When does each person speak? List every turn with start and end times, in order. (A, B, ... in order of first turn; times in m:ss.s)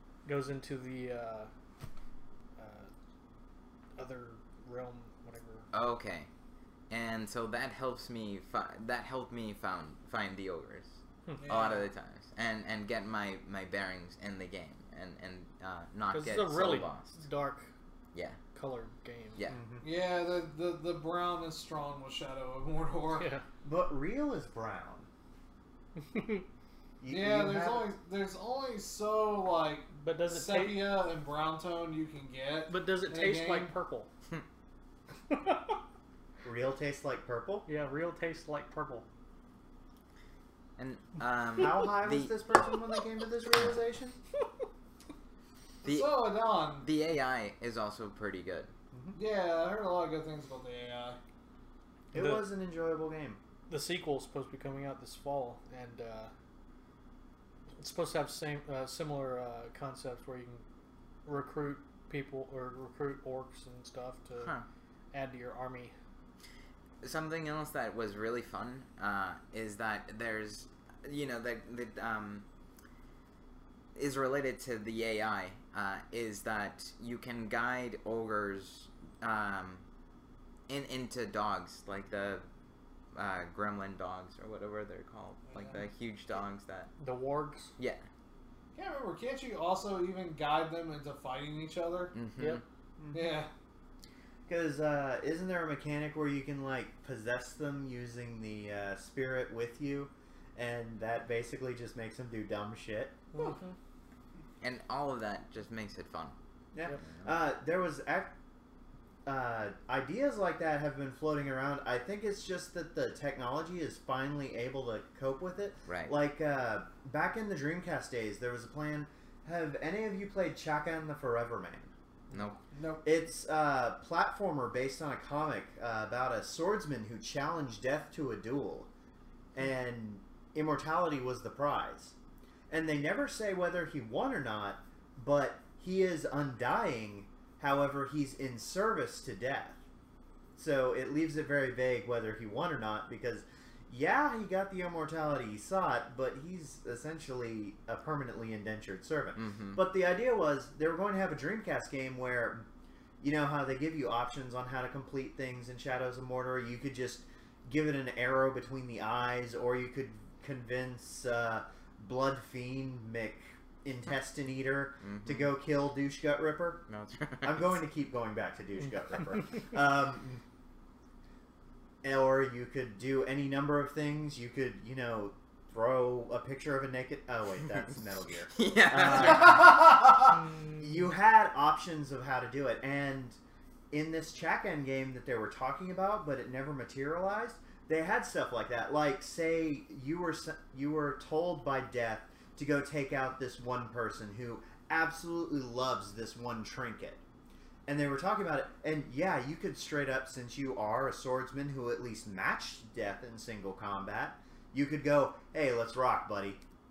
0:00.2-0:01.5 A
0:02.6-0:02.9 A
0:04.0-0:05.7 A
0:05.7-0:06.3 B
0:06.9-0:17.2 B
0:11.4-0:11.9 C
0:16.1-0:17.7 A
0:18.1-0:18.4 B
0:18.6-0:19.4 A
0:19.5-0:19.8 D
0:19.8-0:23.3 C
0:23.2-0:23.4 A
0:23.6-0:25.1 D
0:26.1-0:26.5 A
0:27.0-0:27.9 D
0:27.1-0:33.7 C
0:30.0-0:30.8 A
0:32.7-0:34.1 A
0:35.3-0:35.8 A
0:36.4-0:37.7 D
0:37.7-0:39.1 A
0:40.8-0:42.3 B
0:41.6-0:44.2 D
0:45.8-0:46.9 C
0:45.8-0:48.7 B
0:48.9-0:49.2 D
0:49.2-0:51.2 C
0:52.1-0:53.4 D
0:52.2-0:52.5 A
0:53.7-0:56.3 A
0:57.8-1:00.6 A
1:01.3-1:04.5 A
1:04.4-1:04.7 B
1:05.1-1:05.9 A
1:07.0-1:12.4 B
1:14.0-1:19.8 B
1:20.7-1:22.5 B
1:23.1-1:26.9 B
1:25.5-1:25.8 C
1:27.0-1:27.7 A
1:27.8-1:28.0 B
1:28.8-1:32.1 C
1:32.1-1:32.6 B
1:33.0-1:33.4 D
1:33.1-1:33.5 C
1:34.5-1:43.2 D
1:43.3-1:43.8 A
1:44.6-1:46.4 B
1:46.7-1:48.3 D
1:47.0-1:47.3 B
1:49.3-2:01.9 D
1:55.9-1:56.2 B
2:02.3-2:02.6 B
2:02.7-2:03.0 C
2:03.0-2:08.9 D
2:09.5-2:12.2 D
2:12.7-2:19.8 D
2:20.6-2:32.7 D
2:29.4-2:29.8 B
2:33.2-2:46.8 D
2:45.0-2:45.5 B
2:46.9-2:47.8 B
2:47.4-2:50.4 D
2:52.0-3:03.4 D
2:58.5-2:59.7 B
2:59.1-3:00.3 C
3:03.9-3:17.2 D
3:17.9-3:26.6 D